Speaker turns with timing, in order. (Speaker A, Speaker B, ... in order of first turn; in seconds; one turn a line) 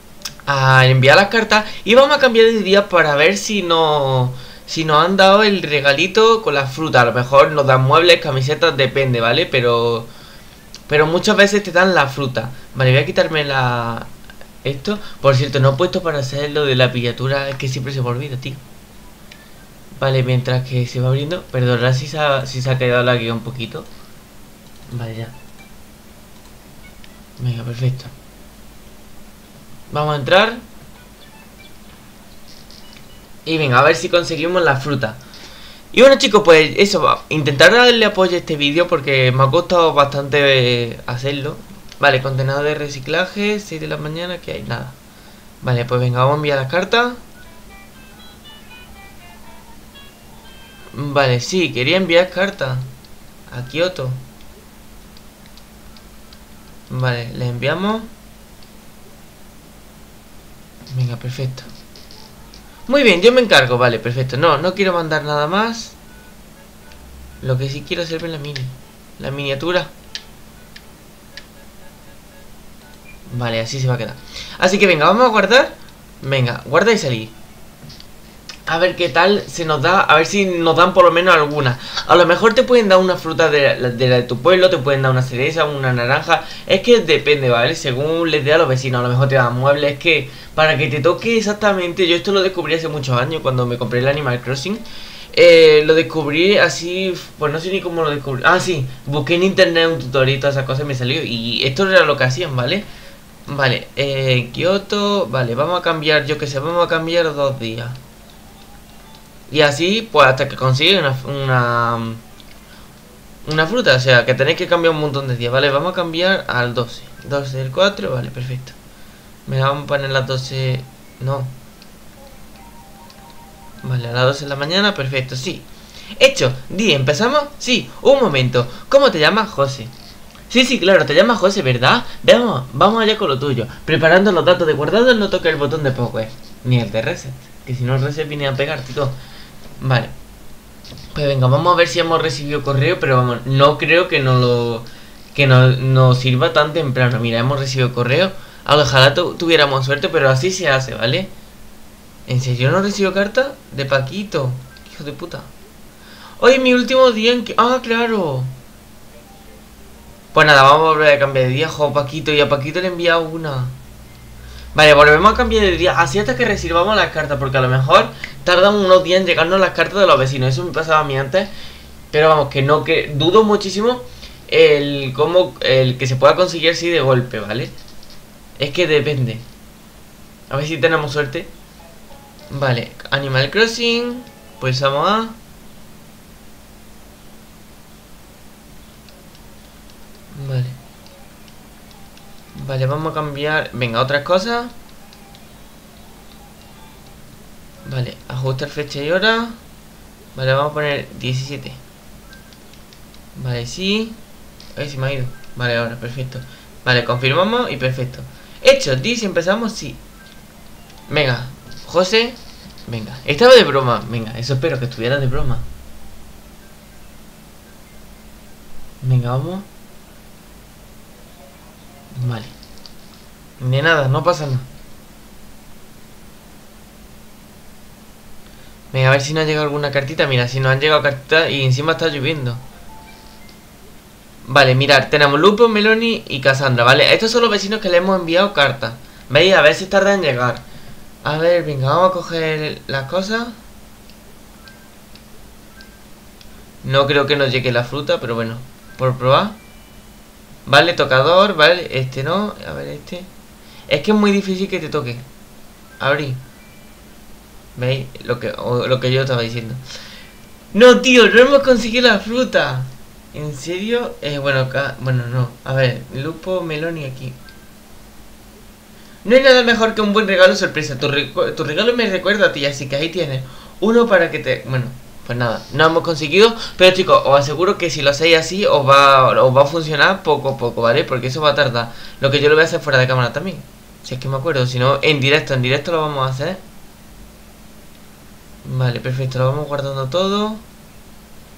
Speaker A: 0.5-10.1
Speaker A: 10.9-14.1
Speaker A: 14.6-18.6
Speaker A: 20.0-23.9
Speaker A: 24.9-25.3
Speaker A: 27.4-28.1
Speaker A: 29.9-30.6
Speaker A: 33.5-35.2
Speaker A: 35.9-45.0
Speaker A: 45.6-47.2
Speaker A: 50.9-52.9
Speaker A: 53.5-54.2
Speaker A: 56.9-58.1
Speaker A: 60.9-61.7
Speaker A: 62.9-66.0
Speaker A: 67.4-69.9
Speaker A: 73.3-77.3
Speaker A: 78.7-102.9
Speaker A: 103.5-108.0
Speaker A: 109.5-112.2
Speaker A: 113.4-118.8
Speaker A: 119.5-121.5
Speaker A: 123.8-129.9
Speaker A: 130.5-139.2
Speaker A: 139.8-140.1
Speaker A: 141.1-151.3
Speaker A: 152.3-155.5
Speaker A: 156.4-158.5
Speaker A: 160.3-163.8
Speaker A: 164.7-171.5
Speaker A: 172.1-177.7
Speaker A: 178.6-179.4
Speaker A: 180.5-181.5
Speaker A: 182.5-185.4
Speaker A: 190.3-190.8
Speaker A: 192.6-194.7
Speaker A: 197.8-199.6
Speaker A: 200.3-201.8
Speaker A: 203.3-204.2
Speaker A: 204.8-210.0
Speaker A: 211.1-215.7
Speaker A: 219.0-219.7
Speaker A: 222.1-222.5
Speaker A: 223.6-224.7
Speaker A: 228.9-232.6
Speaker A: 234.4-240.6
Speaker A: 241.2-243.6
Speaker A: 246.8-249.6
Speaker A: 250.7-253.3
Speaker A: 253.9-255.2
Speaker A: 256.0-256.4
Speaker A: 257.8-259.8
Speaker A: 260.7-267.4
Speaker A: 269.2-286.6
Speaker A: 288.6-290.6